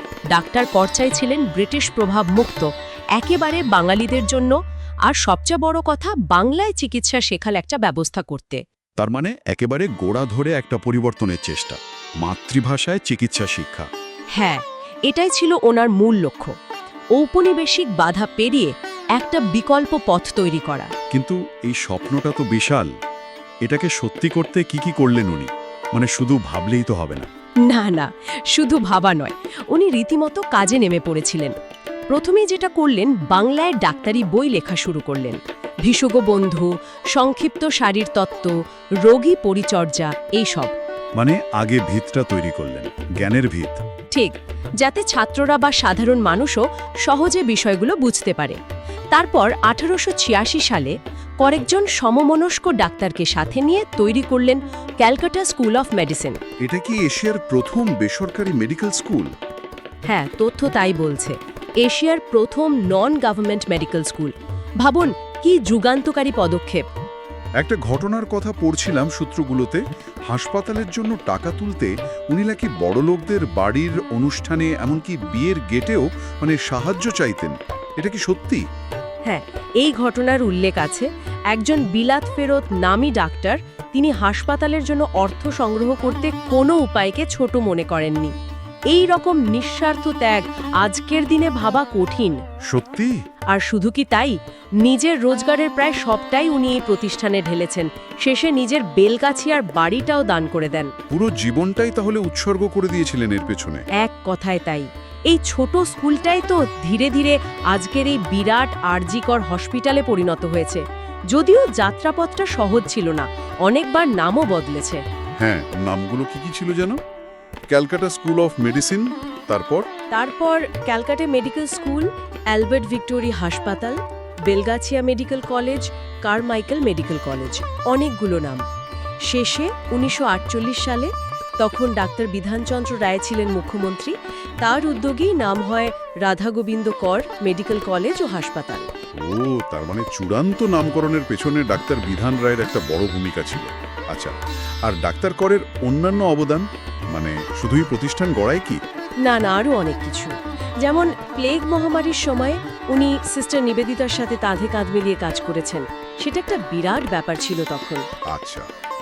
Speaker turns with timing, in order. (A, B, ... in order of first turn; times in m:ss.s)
0:00.3-0:08.6 A
0:09.0-0:13.9 B
0:14.4-0:16.5 A
0:17.2-0:20.9 A
0:21.1-0:22.9 B
0:23.6-0:27.3 B
0:27.7-0:31.6 A
0:32.1-0:40.7 A
0:41.2-0:43.8 B
0:44.1-0:48.6 A
0:49.1-0:56.4 A
0:56.6-0:59.3 B
1:00.1-1:06.8 A
1:07.6-1:18.7 B
1:19.2-1:28.3 A
1:28.9-1:32.4 A
1:32.7-1:33.2 B
1:33.5-1:40.9 A
1:41.1-1:43.8 B
1:44.0-1:55.0 A
1:55.4-1:57.0 B
1:57.7-1:59.9 B
2:00.1-2:08.6 A
2:09.3-2:18.9 A
2:19.2-2:28.8 B
2:29.2-2:38.0 A
2:38.3-2:38.7 B